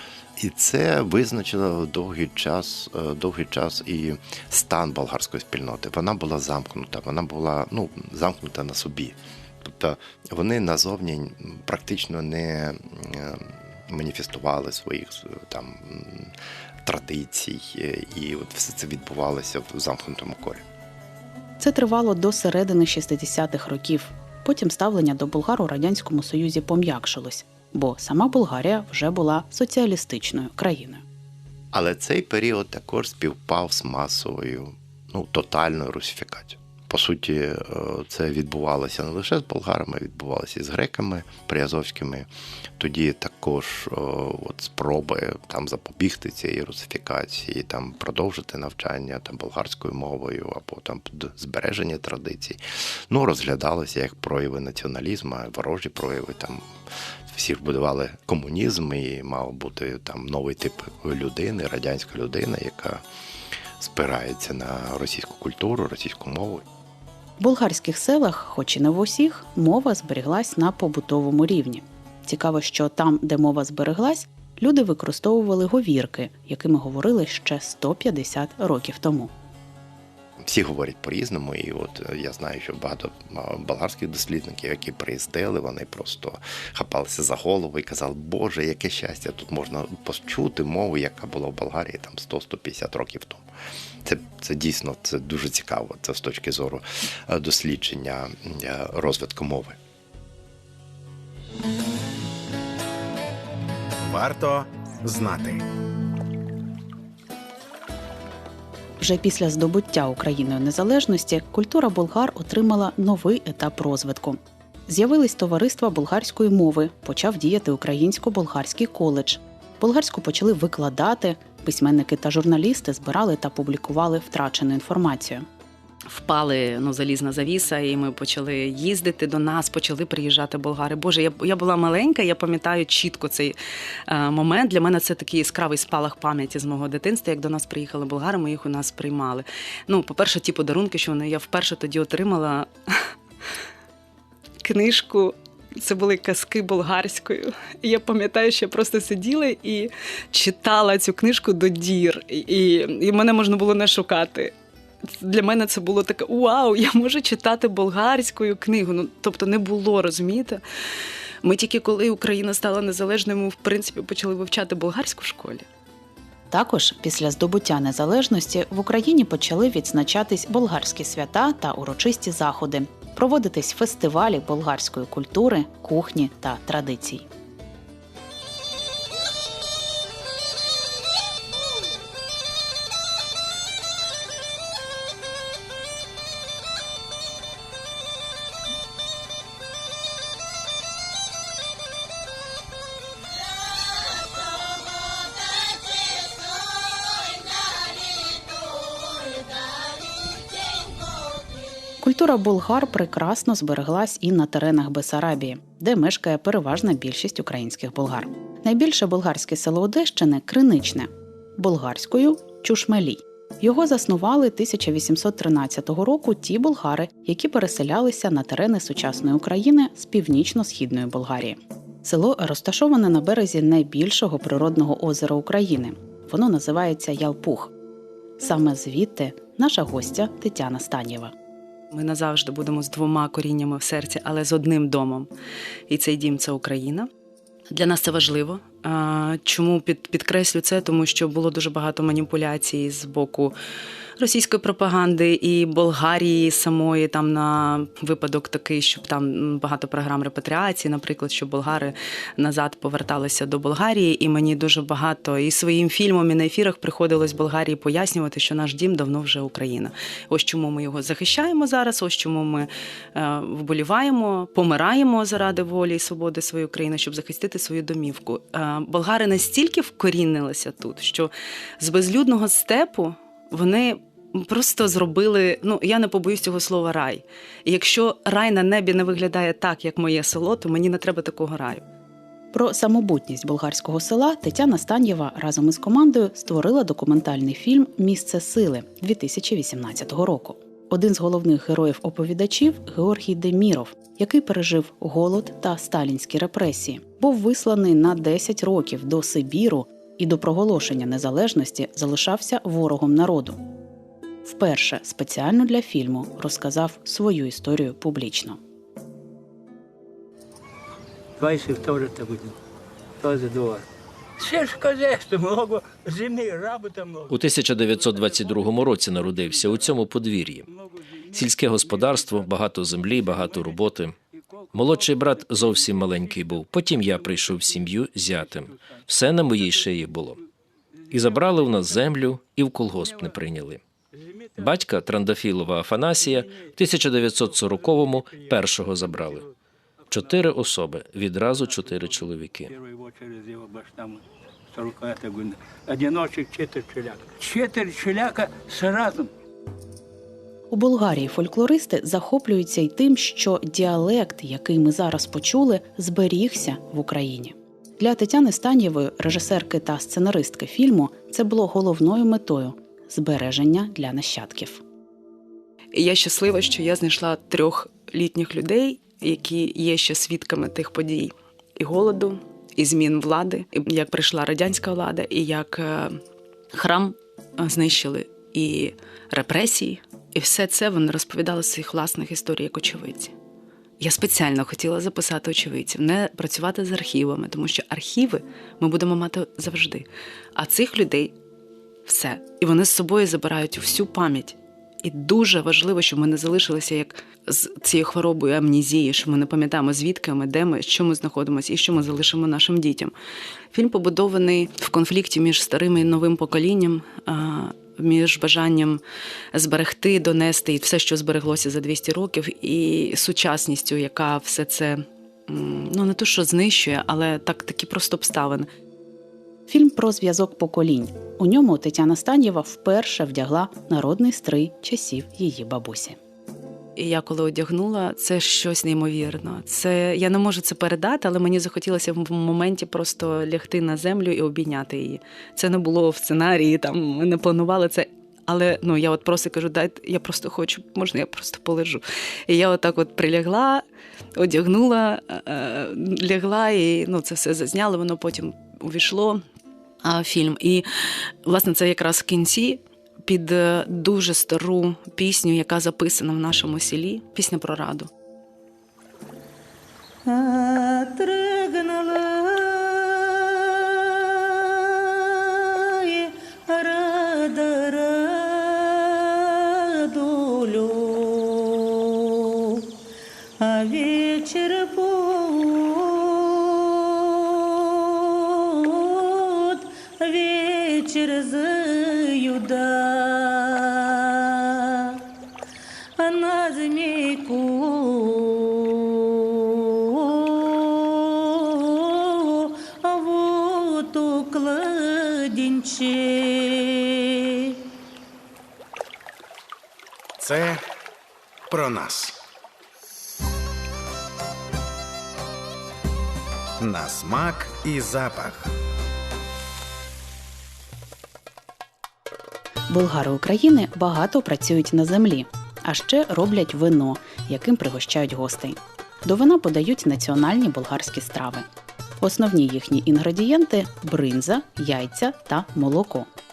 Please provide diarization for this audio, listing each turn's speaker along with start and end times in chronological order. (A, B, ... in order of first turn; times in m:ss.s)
0:00.4-0:20.6 A
0:21.6-0:31.0 B
0:31.7-0:56.7 A
0:57.3-1:03.0 A
1:03.8-1:06.6 A
1:07.4-1:19.3 B
1:20.4-1:33.4 A
1:34.0-1:39.8 A
1:44.1-1:45.6 C
1:49.0-2:05.4 B
2:06.1-2:13.6 D
2:14.1-2:23.1 D
2:24.6-2:34.5 D
2:35.0-2:40.6 D
2:41.4-2:45.6 D
2:46.5-2:57.3 B
3:22.0-3:47.7 B
3:48.4-3:51.3 B
3:51.9-3:55.3 D
3:55.9-3:57.1 D
3:57.7-4:03.5 D
4:04.2-4:41.8 D
4:42.5-5:03.6 B
5:04.4-5:08.6 B
5:11.4-5:12.6 E
5:13.2-5:13.8 E
5:14.4-5:20.0 E
5:17.3-5:20.7 F
5:20.7-5:23.9 E
5:21.3-5:24.1 F
5:24.5-5:30.3 E
5:24.7-5:30.4 F
5:31.1-5:32.2 E
5:31.1-5:33.8 F
5:32.9-5:33.4 E
5:34.1-5:34.9 E
5:34.6-5:39.4 F
5:36.1-5:39.5 E
5:40.1-5:40.5 E
5:40.1-5:42.7 F
5:41.6-5:49.3 E
5:50.7-6:04.8 B
6:05.9-6:16.2 D
6:16.7-6:23.3 D
6:24.0-6:31.3 D
6:32.1-6:43.1 D
6:43.7-6:49.0 D
6:49.5-6:58.7 D
6:59.7-7:06.2 B
7:07.0-7:23.8 D
7:24.4-7:29.4 D
7:30.0-7:38.1 D
7:40.3-7:41.4 F
7:41.5-7:42.2 G
7:46.8-7:48.7 G
7:50.2-7:52.0 G
7:53.7-7:56.4 G
7:58.8-7:59.4 G
8:00.3-8:03.9 G
8:06.3-8:09.1 G
8:10.5-8:10.8 G
8:13.0-8:17.0 G
8:20.4-8:20.8 C
8:21.7-8:22.4 C
8:26.8-8:28.7 C
8:32.9-8:41.6 B
8:42.2-8:46.3 B